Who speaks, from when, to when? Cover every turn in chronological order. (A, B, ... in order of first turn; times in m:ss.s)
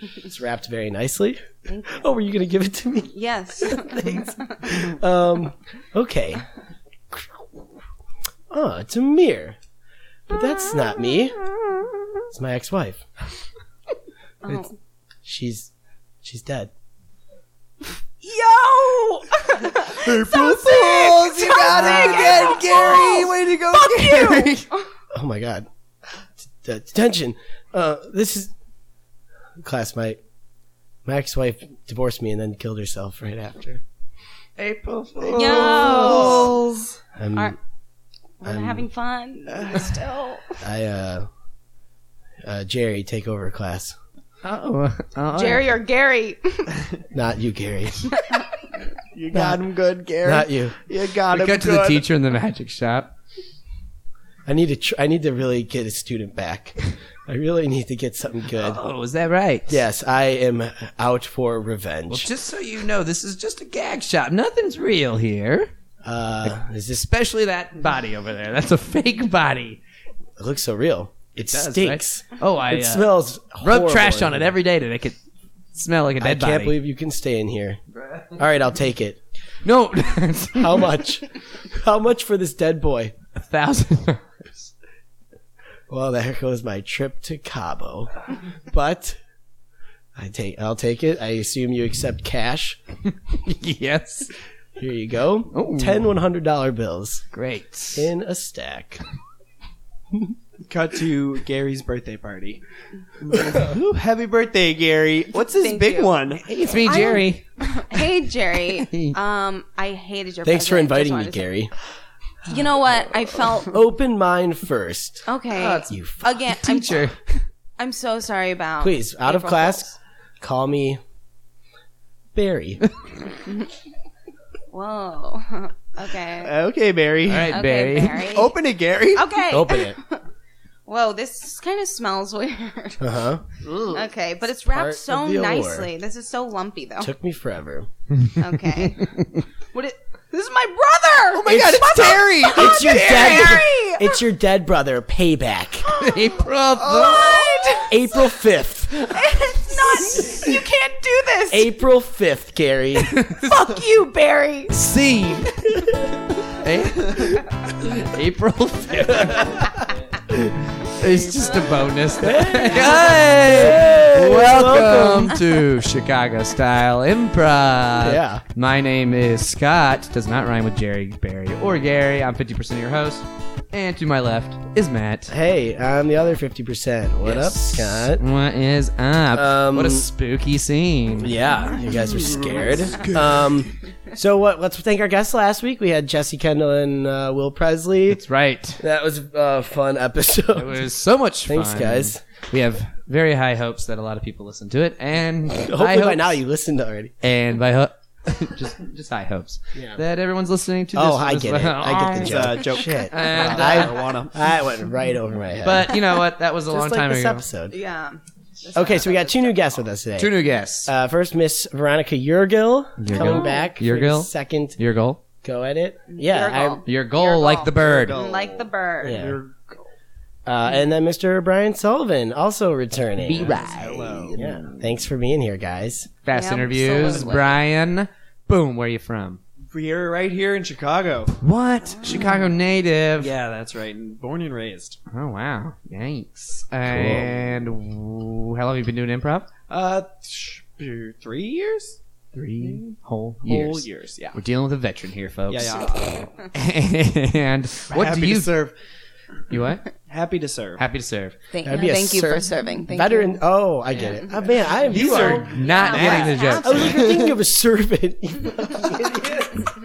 0:00.2-0:06.4 A
0:01.7-0:02.0 B
0:03.1-0:04.6 B
0:08.5-0:09.6 A
0:10.3-0:11.4 A
0:12.3-0:13.0 A
0:14.4-0:14.7 B
0:15.2-0:15.7 A
0:16.2-0:16.7 A
0:18.2-0:24.8 B
0:19.8-0:24.6 C
0:25.1-0:25.7 A
0:26.6-0:28.5 A
0:29.6-0:30.2 A
0:31.0-0:33.8 A
0:34.6-0:36.5 D
0:35.2-0:36.9 C
0:35.3-0:36.6 B
0:35.7-0:36.4 A
0:37.2-0:37.6 A
0:38.4-0:40.6 B
0:38.4-0:38.8 A
0:40.6-0:41.3 A
0:42.4-0:43.9 A
0:44.4-0:45.7 D
0:45.3-0:46.8 B
0:47.1-0:48.1 A
0:48.1-0:48.4 B
0:49.1-0:52.0 C
0:49.3-0:49.6 A
0:50.2-0:50.8 A
0:51.3-0:53.1 D
0:54.4-0:58.8 A
0:58.6-0:59.8 D
0:59.7-1:02.3 A
1:02.1-1:05.7 D
1:06.0-1:07.0 A
1:06.4-1:09.8 D
1:10.4-1:14.5 A
1:11.4-1:15.2 D
1:15.7-1:16.8 D
1:16.2-1:17.8 A
1:18.3-1:19.2 A
1:19.6-1:20.9 D
1:20.6-1:23.1 A
1:23.4-1:24.7 D
1:25.9-1:28.1 A
1:28.7-1:29.2 A
1:30.1-1:32.8 A
1:33.4-1:34.3 D
1:34.8-1:37.2 A
1:35.5-1:36.1 D
1:37.3-1:38.1 D
1:37.9-1:39.0 A
1:40.7-1:42.6 C
1:43.2-1:46.4 C
1:45.4-1:46.2 B
1:46.4-1:47.4 D
1:46.8-1:51.5 B
1:48.8-1:49.2 D
1:50.4-1:51.7 A
1:52.4-1:53.8 B
1:53.7-1:55.2 A
1:55.2-1:57.2 B
1:55.5-1:55.9 D
1:55.9-1:56.3 A
1:56.6-1:57.1 D
1:57.8-1:59.9 B
1:58.8-1:59.9 A
2:00.4-2:01.0 A
2:02.3-2:02.8 A
2:04.7-2:06.5 B
2:06.4-2:07.6 C
2:07.3-2:08.3 D
2:07.5-2:08.5 B
2:08.2-2:09.2 C
2:09.1-2:10.2 B
2:09.5-2:10.0 A
2:10.8-2:13.0 B
2:13.0-2:13.4 A
2:13.6-2:14.0 C
2:13.9-2:17.1 B
2:14.7-2:15.9 A
2:17.0-2:17.9 A
2:18.4-2:19.2 B
2:19.7-2:24.2 B
2:21.3-2:23.6 C
2:22.5-2:25.9 A
2:25.9-2:26.2 B
2:26.0-2:27.4 D
2:26.8-2:27.9 C
2:26.9-2:28.2 B
2:27.8-2:29.2 A
2:29.0-2:31.7 B
2:30.1-2:30.5 A
2:31.5-2:33.1 A
2:33.0-2:33.4 D
2:33.3-2:34.8 B
2:34.7-2:35.8 D
2:36.4-2:39.8 D
2:40.8-2:55.3 D
2:42.2-2:45.3 A
2:48.0-2:48.4 A
2:55.3-2:58.2 A
2:57.2-3:01.4 D
2:59.3-3:00.1 A
3:01.2-3:08.2 A
3:01.8-3:03.6 C
3:08.1-3:08.8 D
3:08.8-3:10.8 A
3:10.5-3:16.4 D
3:11.4-3:12.2 A
3:15.6-3:17.1 A
3:17.2-3:22.5 D
3:19.7-3:20.0 A
3:20.9-3:26.0 A
3:22.1-3:24.4 C
3:23.1-3:24.1 D
3:25.6-3:27.4 D
3:26.7-3:27.7 A
3:27.7-3:29.7 B
3:28.7-3:30.3 A
3:30.2-3:30.9 D
3:30.8-3:34.8 A
3:33.0-3:35.2 D
3:33.1-3:33.7 B
3:35.4-3:36.8 A
3:36.1-3:39.3 B
3:36.8-3:38.2 D
3:37.7-3:39.6 C
3:39.0-3:39.4 A
3:40.4-3:43.7 A
3:43.2-3:44.8 D
3:43.6-3:44.5 C
3:44.3-3:46.1 A
3:46.2-3:49.4 D
3:46.3-3:47.6 B
3:49.7-3:51.3 C
3:51.3-3:53.3 D
3:51.8-3:52.5 B
3:53.2-3:55.0 C
3:55.1-3:59.5 D
3:56.9-3:57.4 C
3:59.7-4:02.0 C
4:02.3-4:06.0 D
4:03.4-4:04.4 C
4:05.5-4:06.3 C
4:06.5-4:08.5 D
4:07.9-4:08.7 C
4:09.5-4:09.9 D
4:10.1-4:10.8 C
4:10.8-4:11.4 D
4:11.5-4:13.4 B
4:11.6-4:15.6 A
4:14.8-4:17.0 C
4:14.9-4:16.9 D
4:15.5-4:17.3 B
4:16.1-4:19.7 A